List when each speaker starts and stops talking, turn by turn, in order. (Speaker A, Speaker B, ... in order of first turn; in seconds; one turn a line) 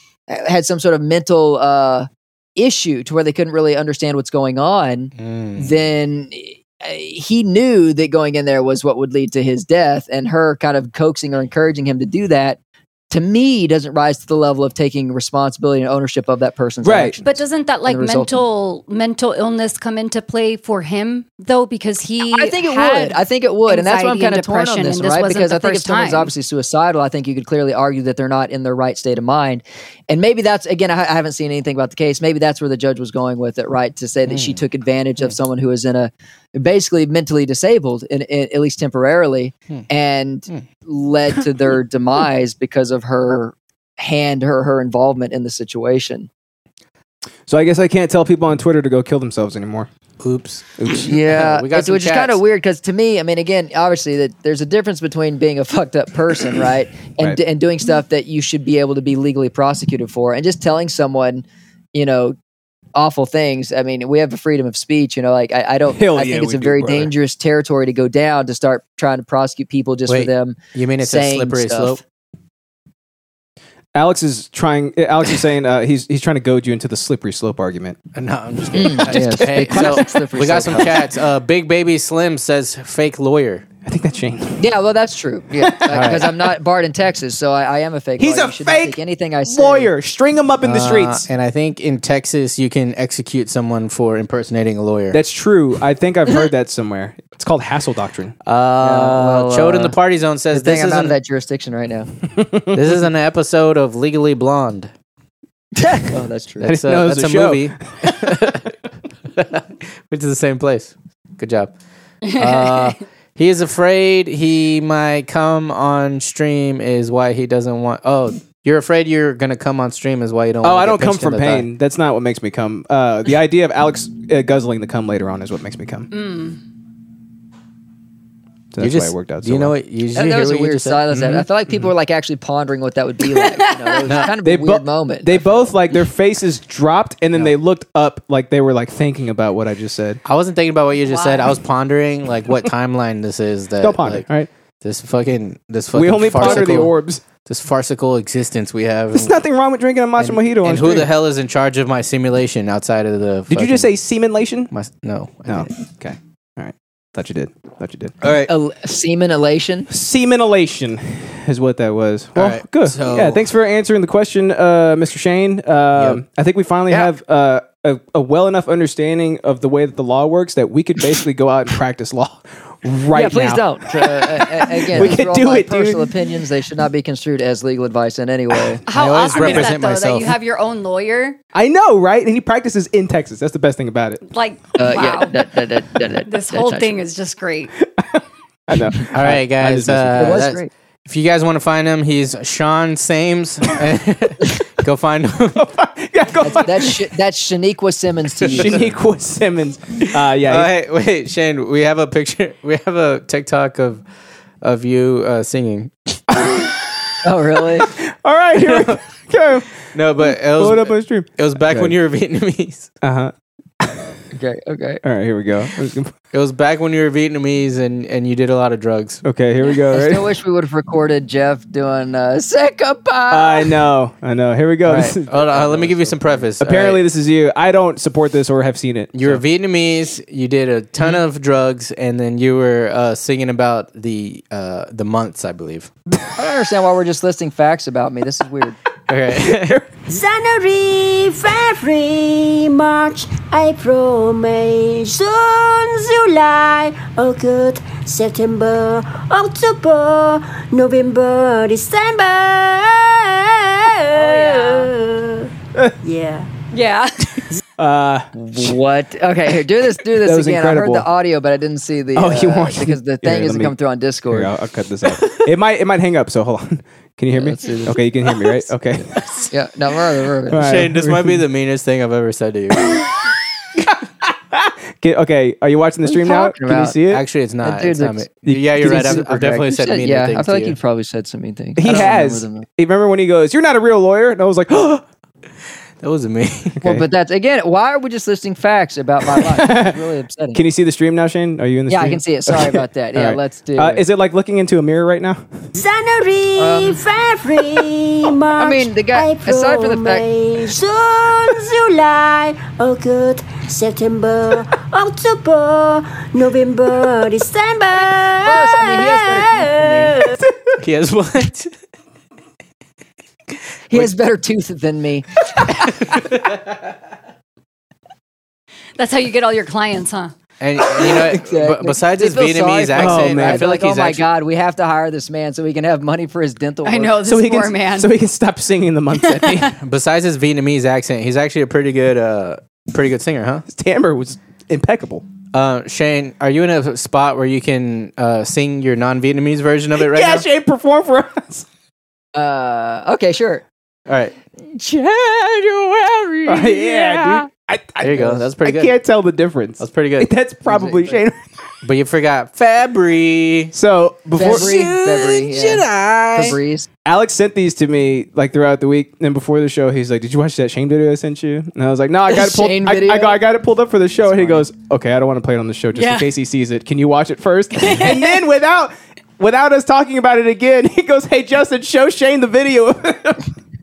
Speaker A: 0.3-12.6
Speaker B: 5.2-5.7
Speaker A: 13.1-18.4
Speaker C: 16.8-17.1
Speaker D: 17.2-26.3
Speaker A: 22.2-46.3
Speaker B: 34.3-34.6
Speaker C: 47.5-49.9
Speaker B: 50.2-52.4
Speaker C: 50.8-51.1
Speaker A: 51.0-62.4
Speaker A: 62.9-72.0
Speaker C: 65.9-67.1
Speaker B: 70.1-72.0
Speaker C: 73.9-78.0
Speaker B: 78.1-83.6
Speaker A: 78.7-81.0
Speaker C: 79.1-80.0
Speaker C: 83.8-84.7
Speaker A: 84.6-89.9
Speaker B: 85.9-86.2
Speaker C: 88.2-91.3
Speaker B: 90.6-95.2
Speaker C: 95.1-98.3
Speaker B: 98.4-101.2
Speaker A: 98.8-100.0
Speaker A: 100.5-102.1
Speaker C: 102.3-102.7
Speaker B: 102.7-104.9
Speaker A: 105.8-106.8
Speaker B: 106.6-108.6
Speaker C: 106.6-108.3
Speaker B: 109.3-111.7
Speaker D: 112.2-112.9
Speaker B: 112.3-121.7
Speaker C: 120.6-126.1
Speaker D: 126.1-126.6
Speaker C: 128.7-129.7
Speaker B: 128.8-131.3
Speaker A: 130.1-135.6
Speaker D: 133.6-133.9
Speaker B: 134.1-134.3
Speaker C: 134.4-140.2
Speaker B: 140.2-144.2
Speaker D: 141.0-141.6
Speaker C: 143.8-144.5
Speaker B: 144.8-149.3
Speaker C: 145.9-147.2
Speaker C: 149.1-151.1
Speaker B: 150.2-153.9
Speaker C: 153.5-154.7
Speaker B: 154.7-155.7
Speaker C: 155.5-158.2
Speaker B: 158.2-158.5
Speaker A: 158.4-159.9
Speaker C: 159.9-176.0
Speaker B: 162.3-163.4
Speaker B: 165.9-166.2
Speaker A: 173.1-178.8
Speaker D: 178.9-181.4
Speaker B: 178.9-180.3
Speaker C: 179.4-179.7
Speaker C: 181.5-184.2
Speaker D: 184.3-185.4
Speaker A: 184.8-186.9
Speaker D: 186.3-187.7
Speaker C: 188.0-190.5
Speaker B: 189.1-195.7
Speaker A: 190.1-190.7
Speaker C: 195.6-197.0
Speaker A: 196.4-198.9
Speaker C: 198.4-200.7
Speaker B: 198.5-198.9
Speaker B: 200.4-204.0
Speaker B: 204.6-206.2
Speaker C: 206.3-206.7
Speaker A: 207.2-207.9
Speaker C: 207.8-211.9
Speaker B: 208.6-209.0
Speaker B: 209.9-212.9
Speaker C: 213.0-213.3
Speaker A: 214.3-215.0
Speaker C: 215.0-216.1
Speaker B: 216.3-219.2
Speaker C: 219.2-220.2
Speaker A: 219.9-223.8
Speaker C: 223.3-229.4
Speaker B: 224.8-227.0
Speaker B: 229.1-235.9
Speaker A: 236.3-238.8
Speaker B: 239.1-239.8
Speaker C: 239.4-239.9
Speaker E: 240.1-255.5
Speaker D: 254.1-254.9
Speaker E: 256.0-256.5
Speaker D: 256.7-257.4
Speaker C: 257.8-258.7
Speaker A: 258.4-264.5
Speaker C: 260.1-261.1
Speaker C: 262.1-263.7
Speaker C: 264.3-269.2
Speaker A: 267.3-268.0
Speaker A: 269.5-270.6
Speaker C: 270.5-271.4
Speaker B: 270.5-273.0
Speaker C: 274.3-277.2
Speaker A: 276.0-277.0
Speaker B: 277.1-280.8
Speaker A: 277.6-282.7
Speaker C: 278.4-279.2
Speaker C: 281.8-285.0
Speaker B: 286.0-286.8
Speaker A: 286.8-290.6
Speaker C: 289.3-290.0
Speaker C: 290.5-295.6
Speaker A: 291.9-294.0
Speaker E: 295.7-310.4
Speaker A: 296.6-297.0
Speaker A: 298.6-300.2
Speaker A: 308.4-310.1
Speaker B: 310.8-311.7
Speaker A: 313.9-315.7
Speaker B: 315.9-316.5
Speaker D: 318.9-320.3
Speaker B: 320.6-324.2
Speaker A: 320.9-327.2
Speaker C: 322.9-323.7
Speaker D: 326.8-328.1
Speaker C: 327.2-329.7
Speaker D: 329.1-329.7
Speaker B: 329.8-333.6
Speaker C: 333.7-335.2
Speaker B: 335.5-340.4
Speaker C: 340.0-341.6
Speaker A: 342.3-343.6
Speaker B: 344.1-347.4
Speaker C: 346.4-351.4
Speaker B: 348.0-348.9
Speaker B: 349.8-350.3
Speaker A: 350.6-351.2
Speaker B: 351.8-353.7
Speaker C: 353.7-354.7
Speaker A: 354.4-356.9
Speaker B: 354.4-356.6
Speaker C: 357.0-373.5
Speaker A: 362.3-363.4
Speaker B: 364.3-364.6
Speaker D: 365.9-366.3
Speaker D: 367.8-368.3